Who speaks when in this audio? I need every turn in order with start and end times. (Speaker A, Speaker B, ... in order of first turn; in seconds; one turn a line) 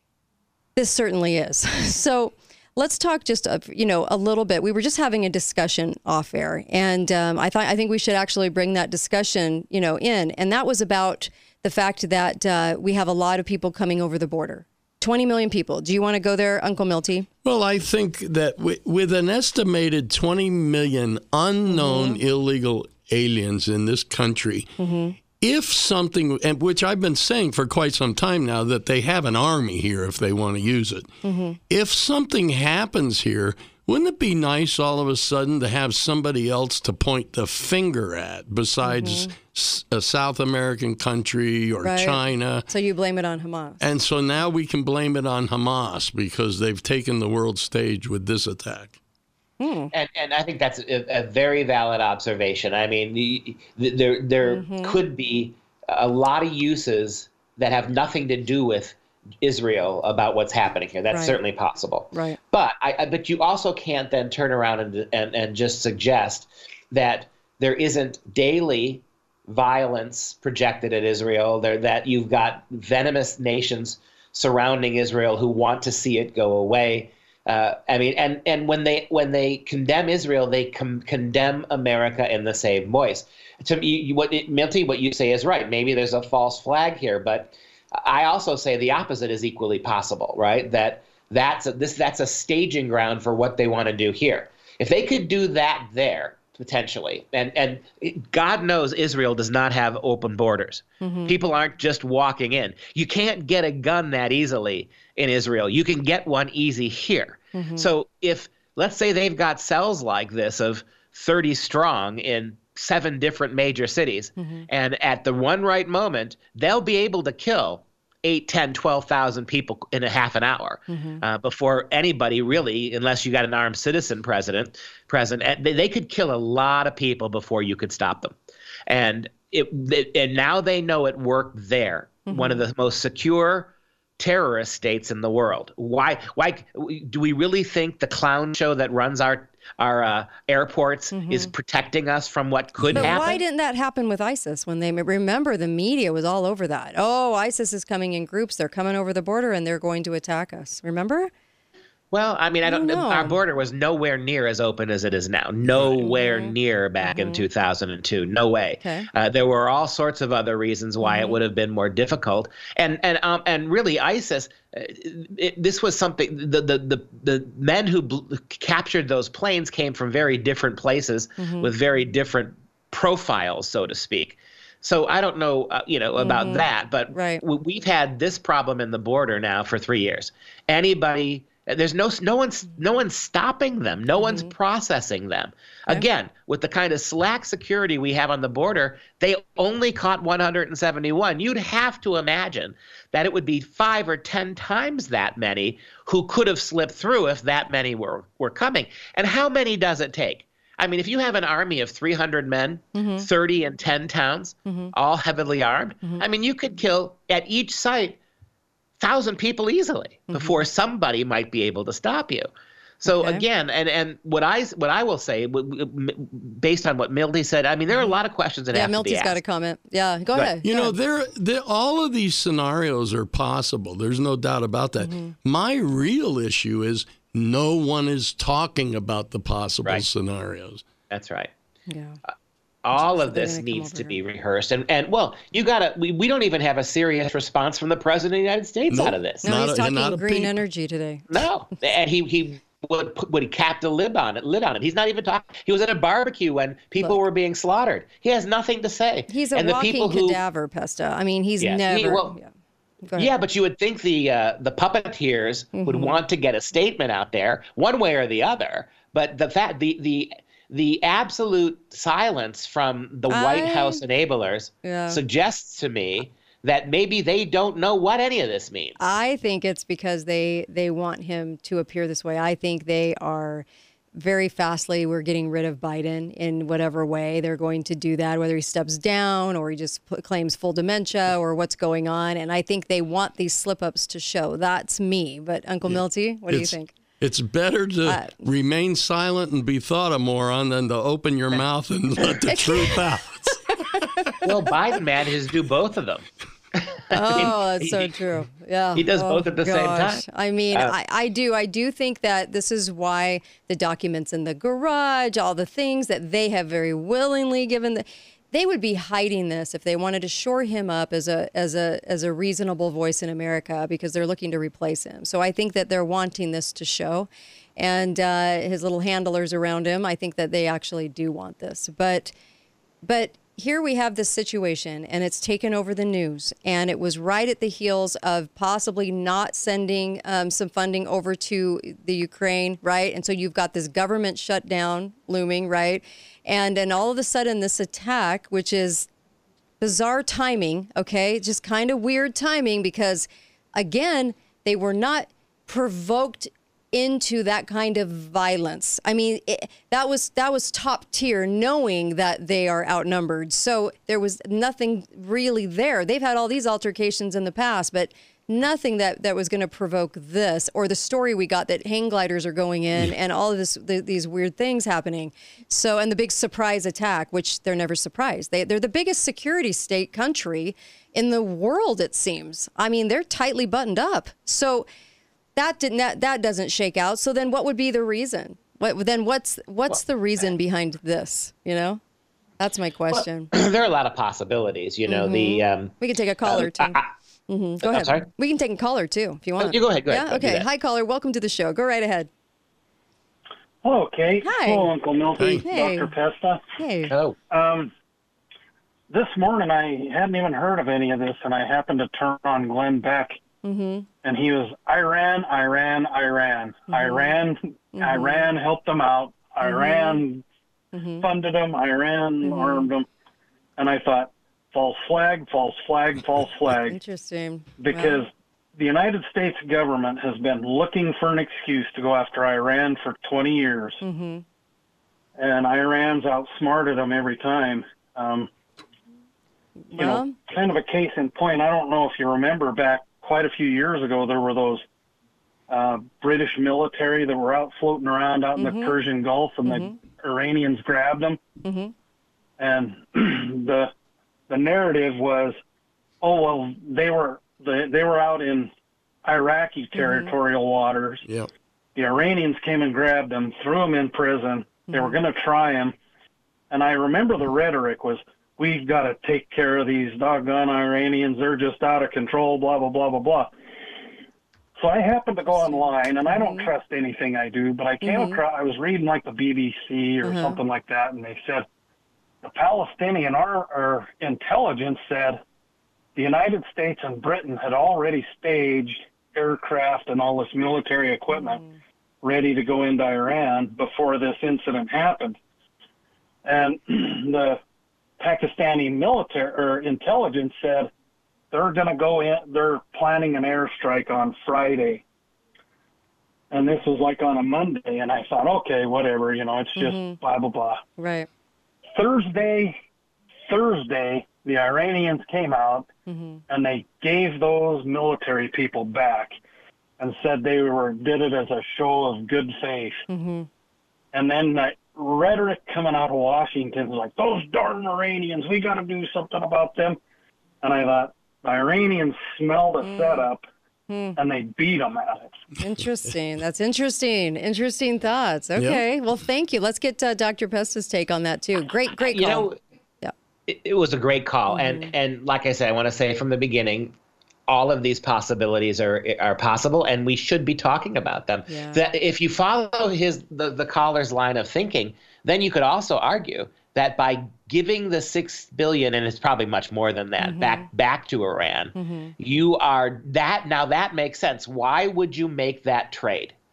Speaker A: 0.8-17.3
Speaker B: 17.4-24.8
Speaker A: 21.7-22.2
Speaker A: 24.8-25.2
Speaker B: 25.4-31.1
Speaker A: 31.2-31.6
Speaker B: 31.7-42.7
Speaker A: 38.8-39.3
Speaker A: 41.8-43.8
Speaker B: 43.8-49.0
Speaker A: 49.6-49.9
Speaker C: 49.9-128.3
Speaker A: 54.4-55.0
Speaker A: 61.1-61.4
Speaker A: 62.1-62.4
Speaker A: 101.0-101.3
Speaker A: 107.5-107.9
Speaker A: 114.4-114.7
Speaker A: 120.9-121.2
Speaker C: 128.9-143.4
Speaker A: 132.3-132.6
Speaker A: 141.1-141.5
Speaker B: 142.8-143.1
Speaker A: 142.9-151.3
Speaker C: 152.1-208.2
Speaker A: 152.6-153.4
Speaker A: 156.0-157.5
Speaker A: 158.8-159.1
Speaker A: 161.0-161.4
Speaker A: 171.4-171.7
Speaker A: 176.2-177.4
Speaker A: 184.2-184.5
Speaker A: 202.9-203.3
Speaker A: 204.7-204.9
Speaker C: 209.0-212.5
Speaker A: 210.3-210.6
Speaker C: 213.0-219.4
Speaker A: 213.1-213.4
Speaker A: 218.7-220.9
Speaker B: 220.6-230.8
Speaker A: 225.0-225.3
Speaker C: 231.1-231.5
Speaker A: 231.9-232.2
Speaker C: 232.8-239.4
Speaker A: 233.0-234.2
Speaker B: 238.9-240.6
Speaker A: 239.4-241.3
Speaker C: 241.3-250.4
Speaker A: 249.3-252.5
Speaker C: 251.6-252.3
Speaker A: 253.0-253.3
Speaker C: 253.2-269.0
Speaker A: 255.8-256.2
Speaker A: 263.3-264.0
Speaker A: 264.8-265.2
Speaker A: 269.0-286.9
Speaker B: 285.9-294.3
Speaker A: 288.1-288.3
Speaker A: 293.7-294.4
Speaker C: 294.4-298.1
Speaker A: 297.1-322.3
Speaker C: 298.9-300.9
Speaker A: 323.0-339.1
Speaker A: 339.8-374.9
Speaker A: 375.6-382.0
Speaker A: 382.6-383.5
Speaker C: 383.1-387.1
Speaker A: 385.1-387.0
Speaker A: 387.5-392.3
Speaker C: 387.8-388.3
Speaker C: 389.6-390.6
Speaker D: 393.8-396.6
Speaker A: 394.4-394.9
Speaker B: 395.4-395.7
Speaker A: 395.6-396.1
Speaker A: 396.8-397.1
Speaker C: 397.1-397.4
Speaker D: 397.5-397.9
Speaker D: 399.1-403.4
Speaker A: 403.6-404.1
Speaker D: 404.2-410.4
Speaker A: 406.9-407.4
Speaker A: 407.9-408.5
Speaker A: 409.6-410.2
Speaker A: 410.9-411.3
Speaker D: 411.2-413.1
Speaker A: 412.4-412.9
Speaker D: 413.8-417.0
Speaker A: 416.8-418.2
Speaker D: 417.8-424.0
Speaker A: 424.0-424.4
Speaker D: 425.4-428.5
Speaker A: 429.9-430.3
Speaker D: 429.9-434.8
Speaker D: 435.7-441.4
Speaker A: 438.6-438.9
Speaker A: 439.6-439.9
Speaker A: 441.6-441.9
Speaker D: 442.6-443.9
Speaker D: 444.5-445.6
Speaker D: 446.2-448.7
Speaker D: 449.2-451.2
Speaker A: 449.9-450.3
Speaker B: 451.2-451.5
Speaker D: 451.9-455.9
Speaker A: 454.9-455.2
Speaker D: 456.7-463.5
Speaker D: 464.8-471.6
Speaker A: 465.5-466.7
Speaker A: 468.0-468.4
Speaker A: 470.2-470.6
Speaker D: 472.4-475.4
Speaker D: 476.1-481.6
Speaker A: 481.3-481.8
Speaker D: 482.2-485.4
Speaker D: 486.4-487.6
Speaker D: 488.2-490.9
Speaker D: 491.5-495.0
Speaker D: 496.5-500.8
Speaker A: 499.8-500.2
Speaker A: 501.0-501.3
Speaker D: 501.9-502.7
Speaker D: 503.5-505.9
Speaker A: 506.1-506.4
Speaker D: 506.5-509.4
Speaker D: 510.0-513.0
Speaker A: 513.1-513.5
Speaker D: 514.1-520.0
Speaker D: 520.6-523.4
Speaker A: 522.8-523.3
Speaker A: 523.9-524.2
Speaker D: 524.2-525.3
Speaker A: 525.6-532.5
Speaker B: 528.6-528.8
Speaker C: 532.0-532.5
Speaker C: 533.5-536.9
Speaker A: 534.5-534.9
Speaker C: 537.5-556.3
Speaker A: 541.5-541.8
Speaker A: 550.2-550.6
Speaker A: 551.7-552.1